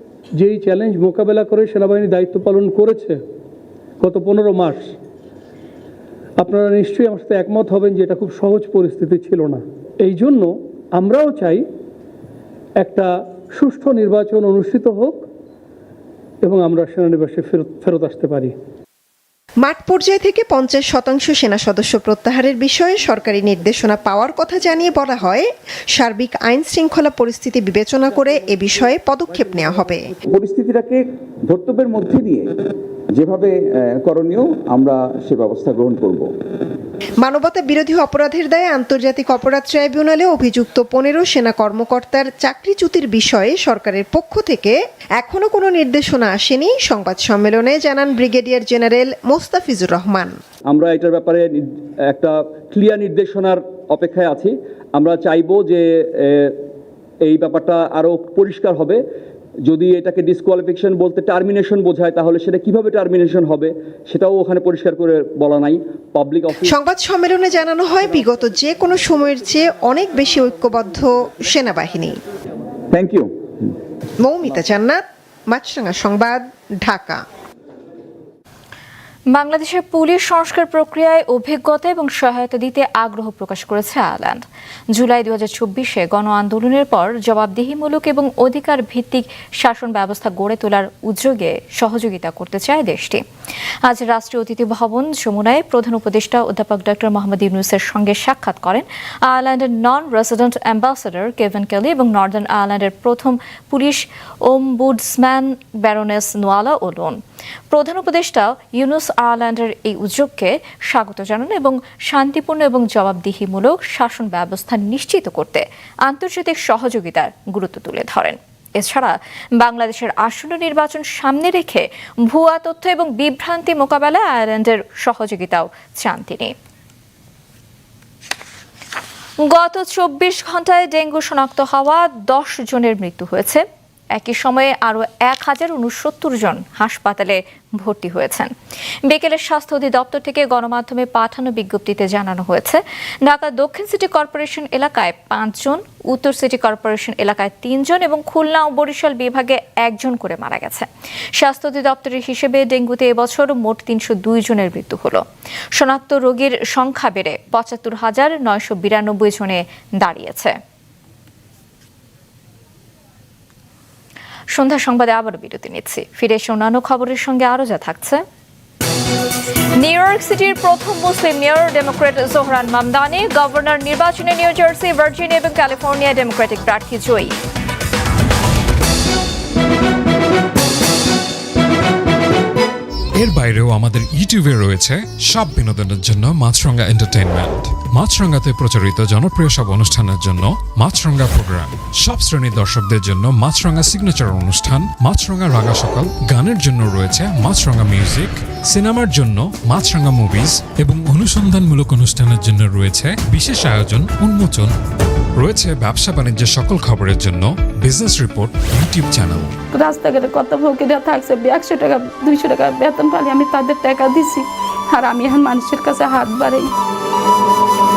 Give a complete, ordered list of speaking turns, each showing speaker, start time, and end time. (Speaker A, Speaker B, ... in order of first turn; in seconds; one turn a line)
Speaker A: 0.4-3.2
Speaker A: 4.0-4.9
Speaker A: 6.4-11.6
Speaker A: 12.8-15.2
Speaker A: 16.4-18.5
Speaker B: 19.6-30.1
Speaker C: 30.3-32.5
Speaker C: 33.1-36.3
Speaker B: 37.2-50.4
Speaker C: 50.7-56.6
Speaker C: 57.2-59.0
Speaker C: 59.7-66.7
Speaker B: 66.7-72.2
Speaker C: 72.9-73.7
Speaker B: 74.2-77.2
Speaker D: 79.3-93.2
Speaker D: 93.8-107.2
Speaker D: 107.7-126.5
Speaker D: 129.4-133.6
Speaker D: 134.1-138.5
Speaker D: 139.1-155.2
Speaker D: 155.7-160.6
Speaker D: 164.5-168.2
Speaker D: 169.8-177.3
Speaker E: 183.2-204.7
Speaker E: 205.4-209.5
Speaker F: 209.8-216.7